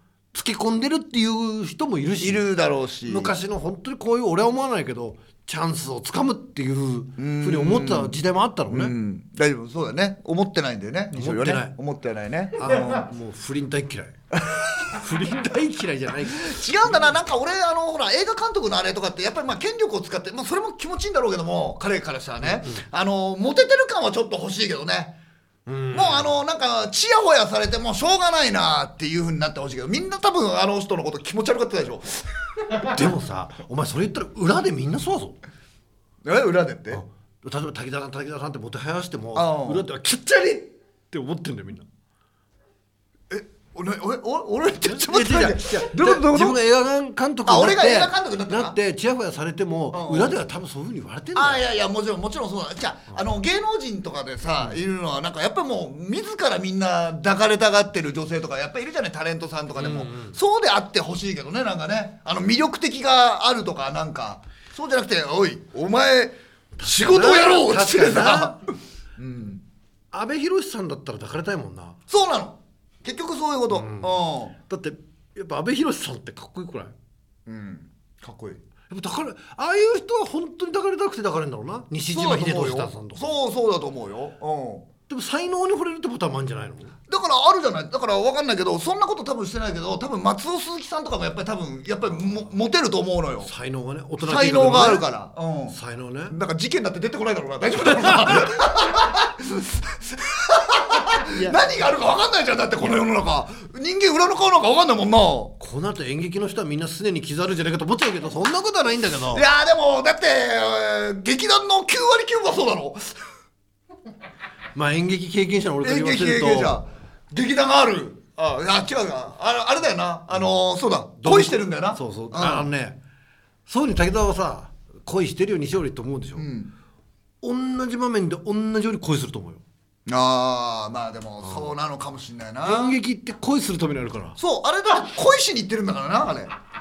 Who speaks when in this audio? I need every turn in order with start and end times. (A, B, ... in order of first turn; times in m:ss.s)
0:00.3-0:02.4 A
0:02.2-0:03.4 B
0:03.0-0:08.9 A
0:07.2-0:08.2 B
0:08.7-0:13.1 B
0:11.1-0:11.7 A
0:12.6-0:14.2 A
0:14.8-0:16.6 A
0:16.4-0:25.2 B
0:22.4-0:22.8 A
0:25.6-0:26.4 A
0:25.9-0:32.2 B
0:32.8-0:35.4 A
0:36.2-0:37.0 B
0:36.9-0:41.9 A
0:39.3-0:39.9 B
0:43.3-0:46.6 B
0:44.9-0:51.6 A
0:47.4-0:48.8 B
0:49.9-0:50.4 B
0:51.3-1:08.6 B
0:59.8-1:00.4 A
1:06.8-1:08.6 A
1:09.2-1:09.6 B
1:10.1-1:12.0 A
1:12.1-1:14.5 B
1:13.7-1:16.9 A
1:17.4-1:18.6 B
1:18.9-1:23.3 A
1:22.1-1:24.9 B
1:25.1-1:26.9 A
1:27.1-1:33.5 B
1:33.4-1:35.1 A
1:34.2-1:45.6 B
1:35.7-1:36.4 A
1:45.6-1:49.4 A
1:49.3-1:53.3 B
1:54.7-1:56.8 A
1:55.8-2:02.7 B
2:01.2-2:03.0 A
2:03.7-2:06.5 A
2:06.4-2:06.7 B
2:07.4-2:09.6 A
2:10.1-2:13.0 B
2:12.6-2:14.4 A
2:14.4-2:16.5 B